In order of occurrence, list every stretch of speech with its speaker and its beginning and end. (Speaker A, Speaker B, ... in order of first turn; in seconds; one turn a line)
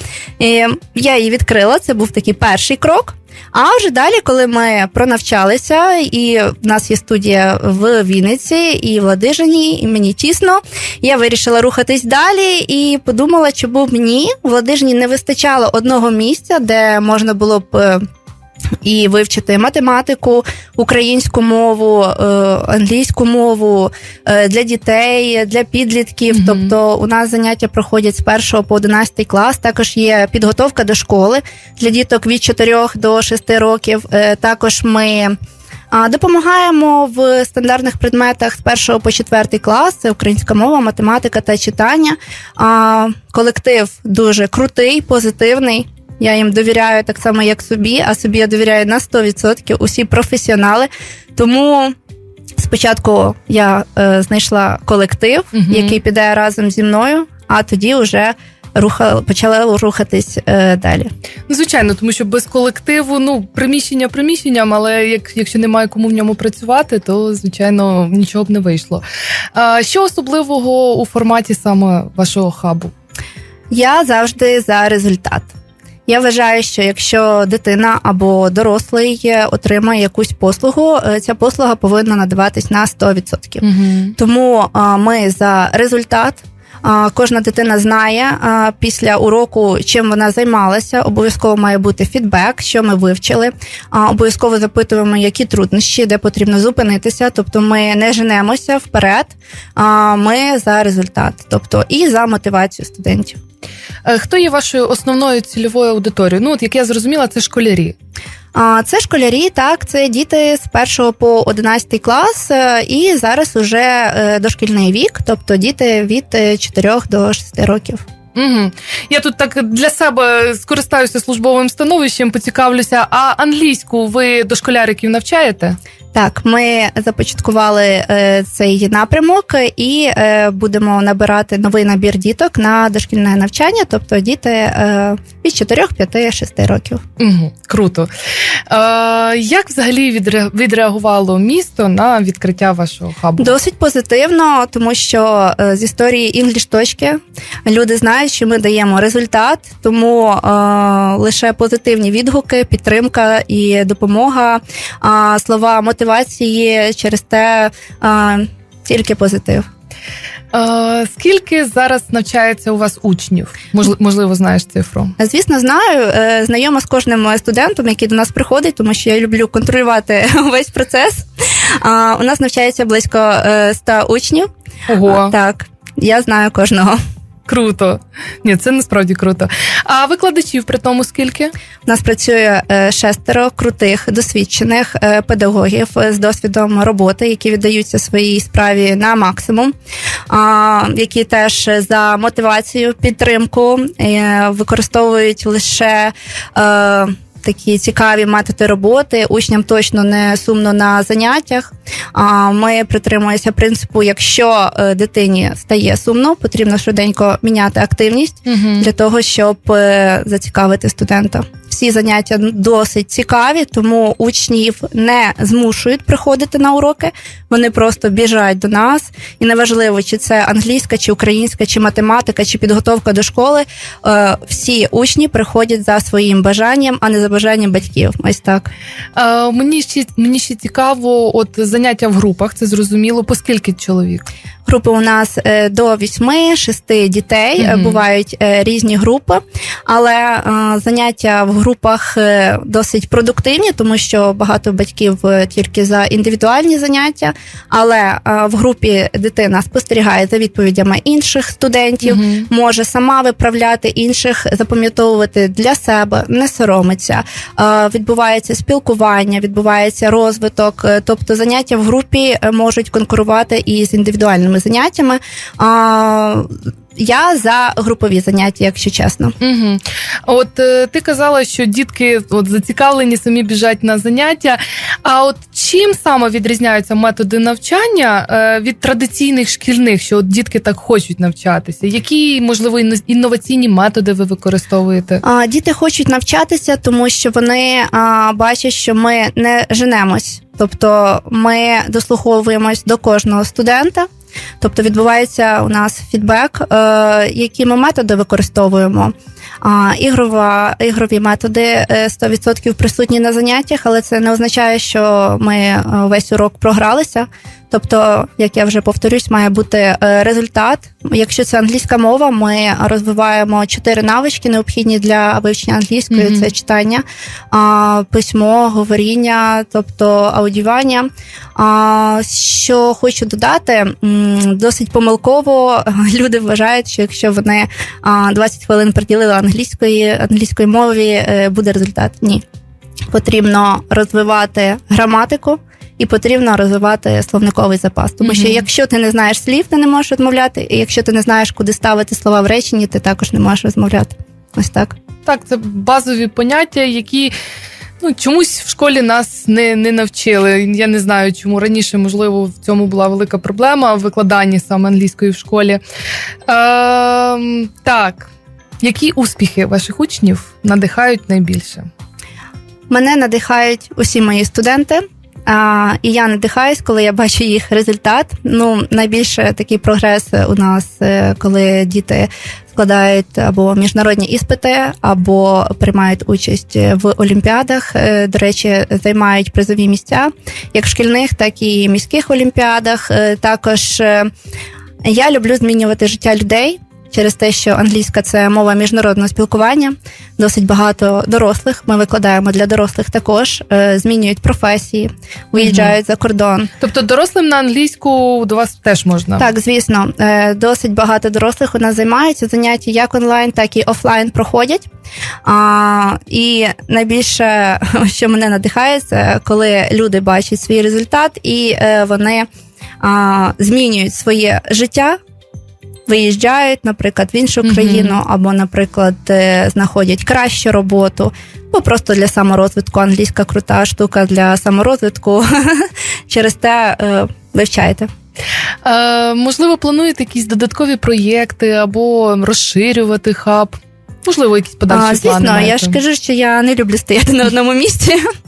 Speaker A: 0.4-18.1
Speaker A: 18.8-35.4
Speaker B: 26.3-26.7
Speaker A: 35.9-52.0
Speaker A: 52.6-61.1
Speaker B: 55.5-56.0
Speaker B: 61.5-69.0
Speaker B: 69.5-72.9
Speaker A: 73.7-75.5
Speaker A: 76.1-83.6
Speaker B: 83.6-84.2
Speaker A: 84.2-103.4
Speaker B: 104.1-108.0
Speaker A: 108.5-118.0
Speaker B: 118.3-125.8
Speaker A: 126.1-137.0
Speaker B: 137.2-138.1
Speaker B: 138.7-143.6
Speaker A: 143.4-159.7
Speaker B: 160.5-165.2
Speaker A: 165.2-174.5
Speaker B: 174.9-175.3
Speaker A: 175.1-177.0
Speaker B: 177.5-181.5
Speaker A: 181.9-189.7
Speaker A: 190.3-228.7
Speaker B: 208.5-208.9
Speaker B: 229.2-234.3
Speaker A: 234.7-269.4
Speaker B: 237.6-238.0
Speaker B: 252.0-252.5
Speaker B: 269.4-285.2
Speaker A: 285.2-294.1
Speaker A: 294.6-332.4
Speaker B: 316.1-316.5
Speaker A: 333.1-345.0
Speaker B: 338.2-338.7
Speaker B: 345.3-347.3
Speaker B: 348.0-355.8
Speaker B: 356.5-358.3
Speaker B: 358.8-361.9
Speaker A: 362.9-384.3
Speaker A: 385.0-396.7
Speaker B: 395.6-395.9
Speaker B: 396.8-399.5
Speaker A: 399.4-404.9
Speaker A: 405.4-412.5
Speaker A: 413.0-415.2
Speaker A: 416.1-428.1
Speaker B: 417.6-418.2
Speaker B: 428.8-436.0
Speaker A: 434.9-438.2